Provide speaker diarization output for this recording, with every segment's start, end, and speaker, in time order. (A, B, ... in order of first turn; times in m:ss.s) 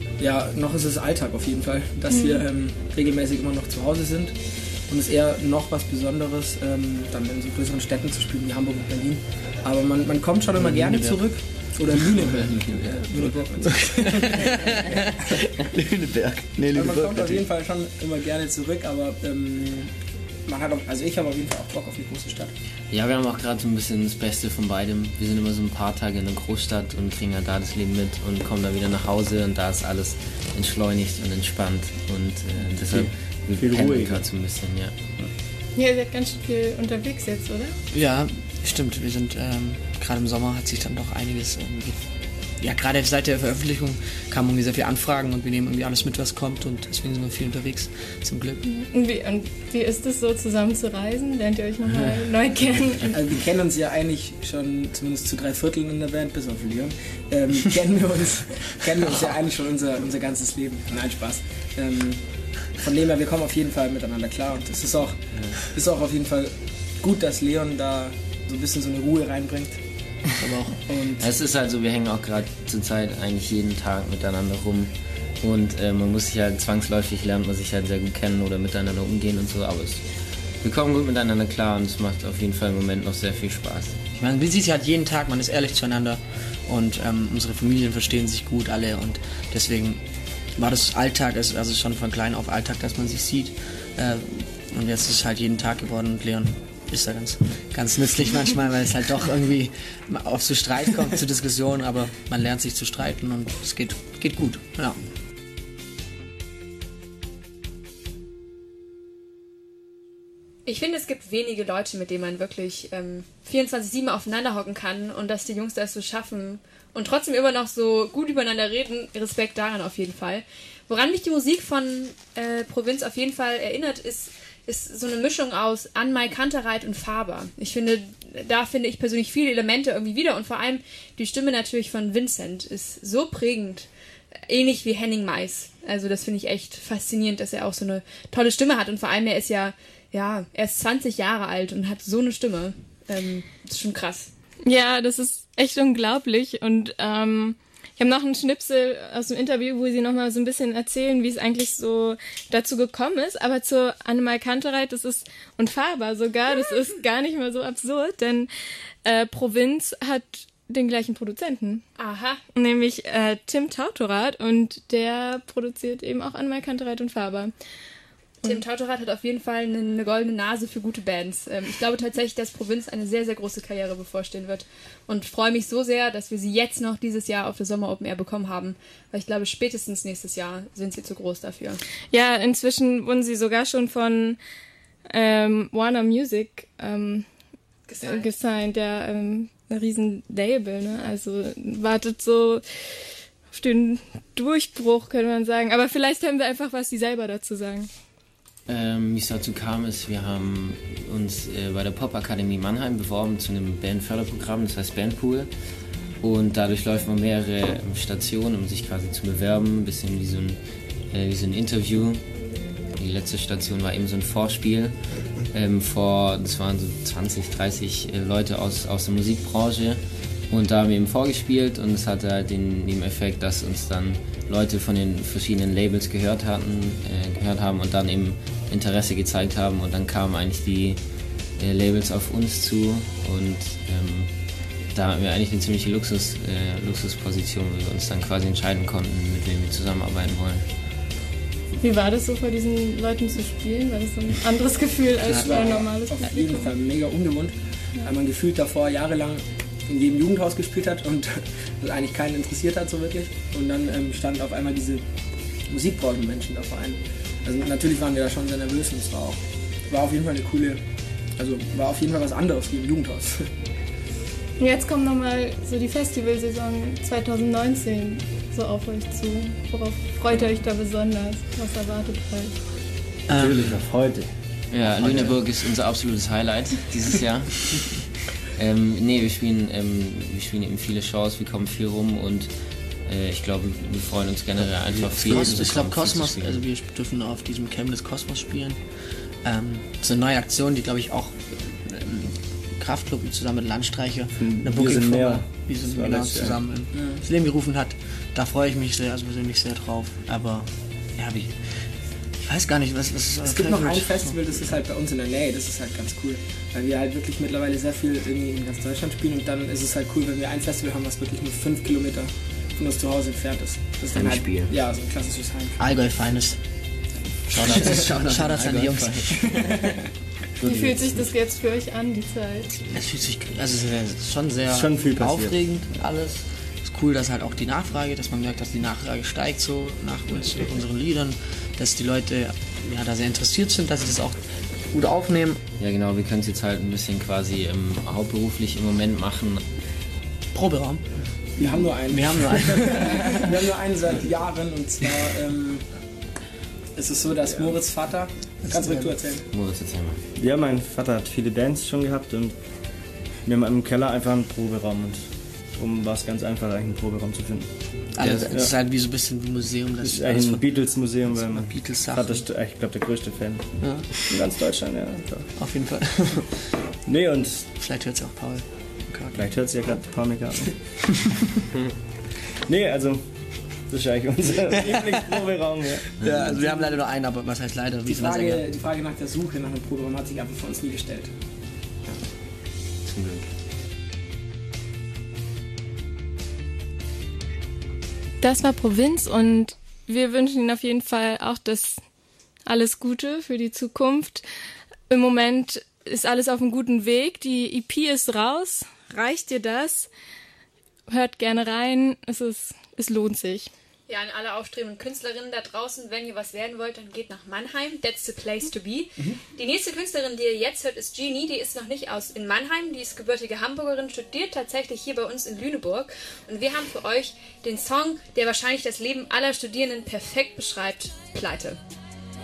0:00.2-0:14.5 A
0:02.1-0:02.4 B
0:10.5-0:13.8 C
0:15.8-0:17.5 D
0:16.7-0:22.5 A
0:22.9-0:35.0 E
0:32.6-0:34.2 D
0:35.8-0:37.8 B
0:37.9-0:48.6 C
0:48.6-0:53.1 B
0:53.1-1:09.8 A
1:05.3-1:05.6 E
1:10.4-1:10.8 C
1:10.8-1:11.3 A
1:11.2-1:24.0 E
1:24.1-1:45.0 C
1:50.6-2:13.9 F
2:14.5-2:24.3 F
2:24.6-2:38.5 B
2:39.0-2:41.8 B
2:42.0-2:42.4 F
2:42.5-2:47.5 B
2:48.4-3:01.8 F
3:02.1-3:04.4 B
3:05.1-3:07.3 B
3:07.9-3:08.3 F
3:08.0-3:12.6 B
3:13.5-3:17.9 B
3:18.7-3:25.5 E
3:26.2-3:32.2 E
3:32.9-3:35.0 E
3:35.5-3:51.0 E
3:51.6-4:00.7 E
4:01.8-4:06.7 B
4:05.2-4:15.0 A
4:05.3-4:05.8 C
4:15.7-4:20.8 A
4:21.4-4:23.5 A
4:24.6-4:32.5 B
4:33.3-4:33.8 C
4:33.3-4:34.3 D
4:34.7-4:42.5 E
4:34.8-4:35.4 D
4:43.0-4:46.6 E
4:45.0-5:04.4 C
4:54.4-4:56.8 D
4:56.9-4:57.2 A
5:03.4-5:15.8 A
5:14.1-5:14.6 C
5:14.1-5:14.7 D
5:15.8-5:16.6 C
5:17.5-5:19.7 C
5:17.6-5:18.0 A
5:17.6-5:19.2 D
5:19.3-5:20.0 A
5:20.6-5:21.2 D
5:20.6-5:22.7 B
5:22.9-5:35.6 C
5:24.6-5:25.8 D
5:35.8-5:39.6 E
5:40.5-5:41.1 C
5:41.6-5:45.9 A
5:41.6-5:43.2 C
5:46.9-5:49.4 A
5:48.7-5:49.1 D
5:49.5-5:50.2 E
5:50.3-5:52.5 D
5:53.4-5:58.7 D
5:58.1-6:02.4 C
6:00.0-6:05.5 D
6:03.8-6:04.3 C
6:05.6-6:06.6 C
6:07.0-6:07.7 D
6:07.7-6:09.4 C
6:09.3-6:10.7 D
6:12.6-6:16.4 D
6:16.2-6:18.6 C
6:18.0-6:21.3 A
6:23.0-6:23.5 E
6:28.4-6:32.0 B
6:32.6-6:34.4 B
6:35.1-6:40.1 B
6:41.1-6:43.7 B
6:44.1-7:01.8 F